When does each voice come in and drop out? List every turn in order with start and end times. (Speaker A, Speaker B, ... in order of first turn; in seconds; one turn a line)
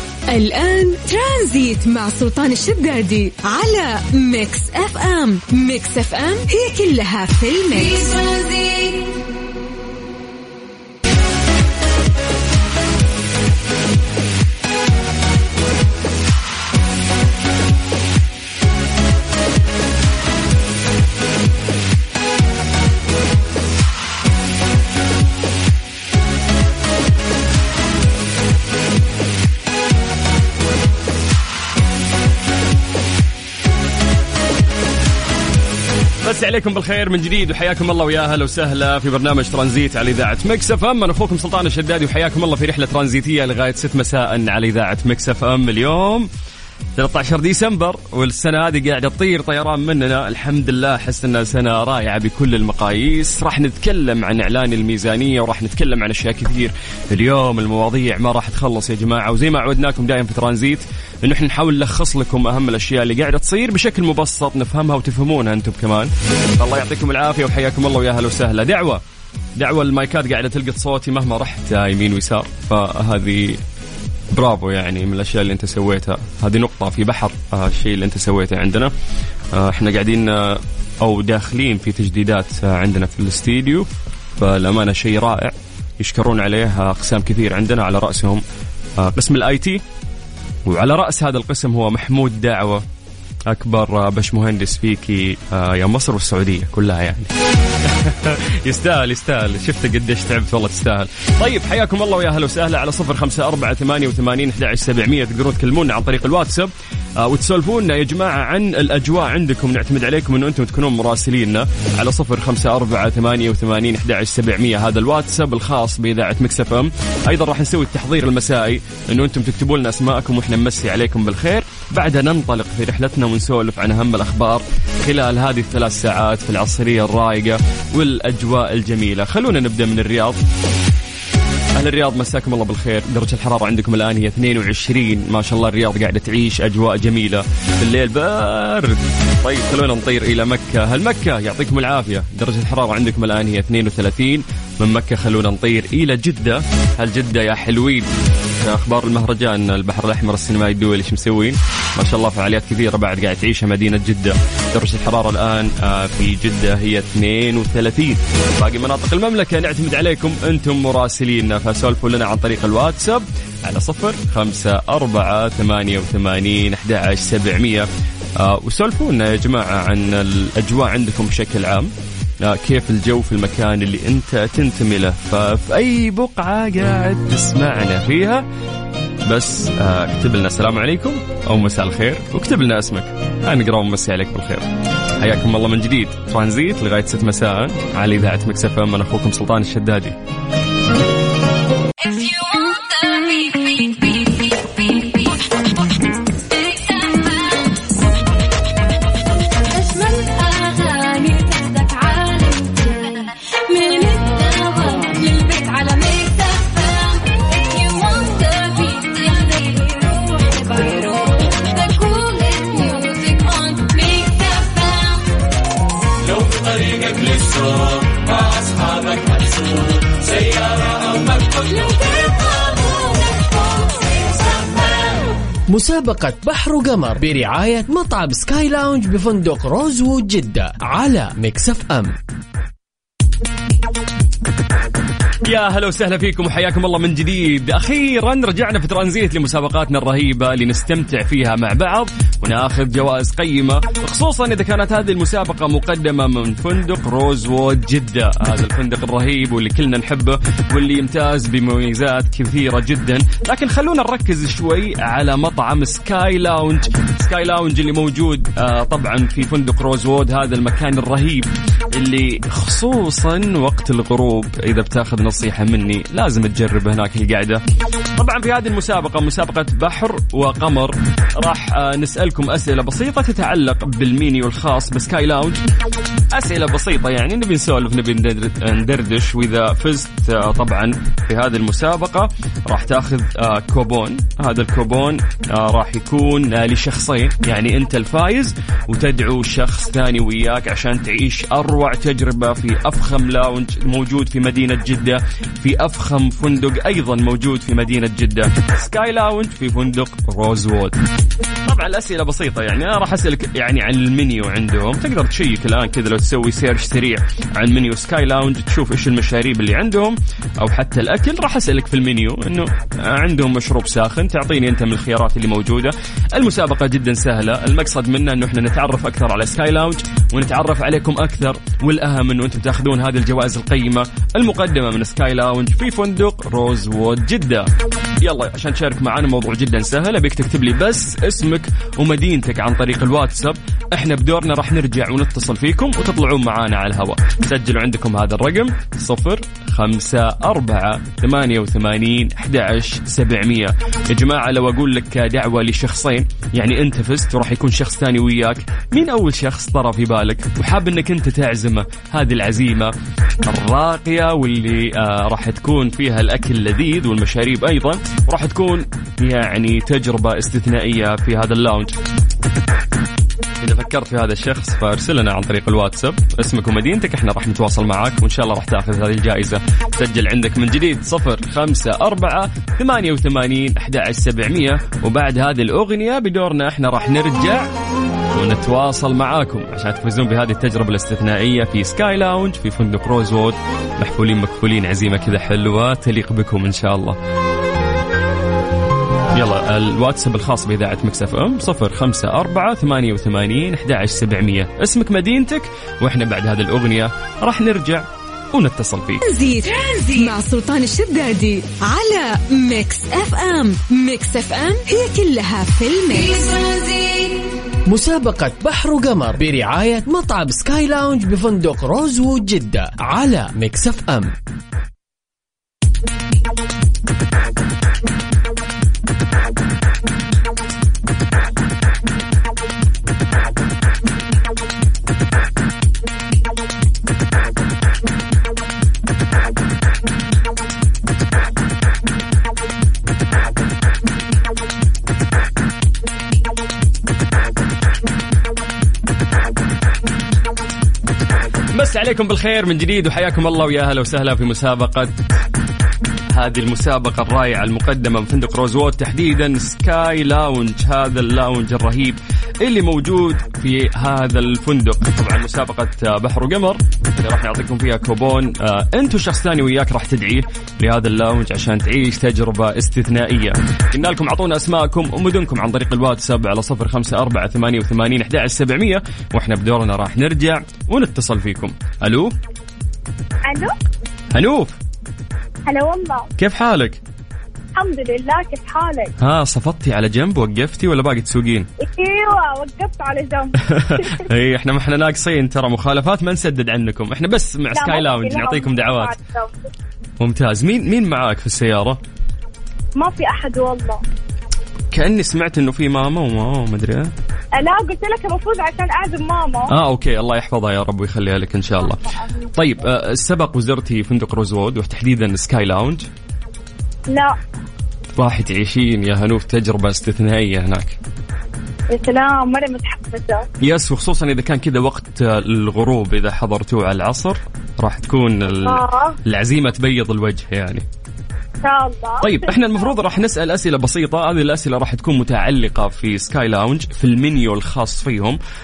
Speaker A: 0.3-8.0
Speaker B: 7.8-9.2
Speaker C: 36.2-46.3
Speaker C: 47.0-69.0
Speaker C: 69.6-73.6
Speaker C: 74.3-78.9
Speaker C: 79.5-83.9
Speaker C: 84.4-88.4
Speaker C: 89.0-89.8
Speaker C: 90.7-92.8
Speaker C: 93.5-130.4
Speaker C: 131.8-167.8
Speaker C: 168.4-171.9
Speaker C: 172.4-178.4
Speaker C: 179.2-190.2
Speaker B: 192.0-198.2
Speaker B: 199.6-215.3
Speaker C: 216.4-217.8
Speaker C: 219.3-219.6
Speaker C: 220.5-220.8
Speaker B: 221.5-225.2
Speaker D: 225.7-232.1
Speaker C: 235.4-267.6
Speaker C: 268.2-275.6
Speaker C: 276.3-300.9
Speaker C: 301.6-327.7
Speaker C: 328.2-352.9
Speaker C: 353.4-361.9
Speaker C: 363.6-377.7
Speaker C: 378.3-387.2
Speaker C: 389.3-399.2
Speaker A: 399.2-406.4
Speaker B: 406.4-407.4
Speaker D: 407.9-414.3
Speaker C: 441.7-445.3
Speaker C: 446.3-472.3
Speaker E: 473.5-473.7
Speaker C: 474.3-474.8
Speaker E: 475.7-476.2
Speaker C: 476.4-477.0
Speaker E: 477.7-479.1
Speaker C: 479.2-481.7
Speaker E: 481.8-484.2
Speaker C: 483.7-489.1
Speaker E: 487.7-489.6
Speaker C: 490.2-492.0
Speaker E: 493.0-494.0
Speaker C: 494.9-497.1
Speaker E: 497.6-499.7
Speaker C: 499.7-502.0
Speaker C: 502.5-506.1
Speaker E: 507.1-507.4
Speaker C: 508.1-511.0
Speaker E: 511.9-513.5
Speaker C: 513.6-520.8
Speaker E: 518.6-519.2
Speaker E: 521.6-522.9
Speaker C: 522.2-528.4